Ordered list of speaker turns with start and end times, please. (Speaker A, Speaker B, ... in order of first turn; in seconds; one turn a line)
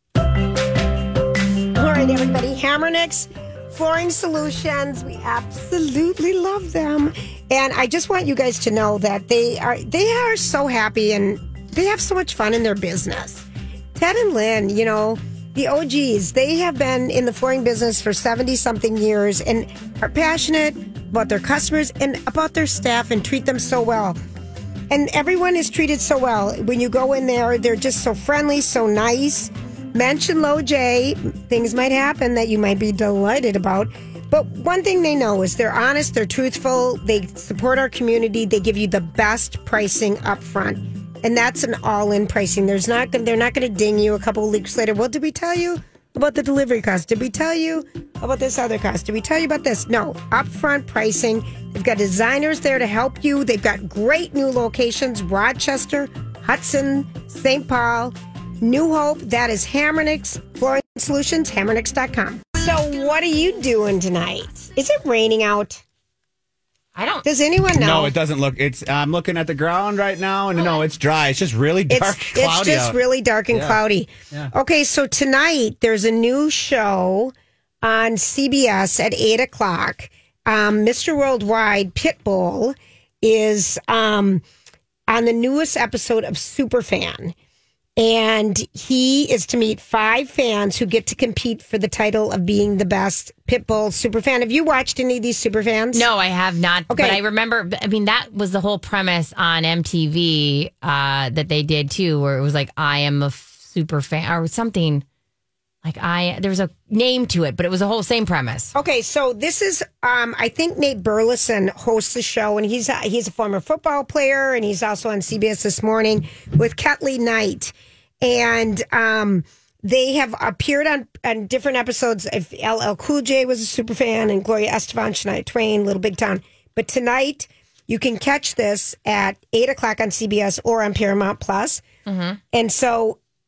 Speaker A: 1.7-24.2
Speaker A: 24.9-65.8
Speaker B: 67.0-67.3
Speaker A: 67.2-68.1
Speaker C: 67.7-73.0
Speaker A: 71.9-84.4
Speaker C: 73.5-73.8
Speaker A: 85.1-87.3
Speaker A: 88.0-96.1
Speaker B: 95.9-105.0
Speaker A: 96.9-97.2
Speaker B: 105.8-108.7
Speaker A: 108.7-131.8
Speaker B: 132.1-132.4
Speaker A: 132.5-133.2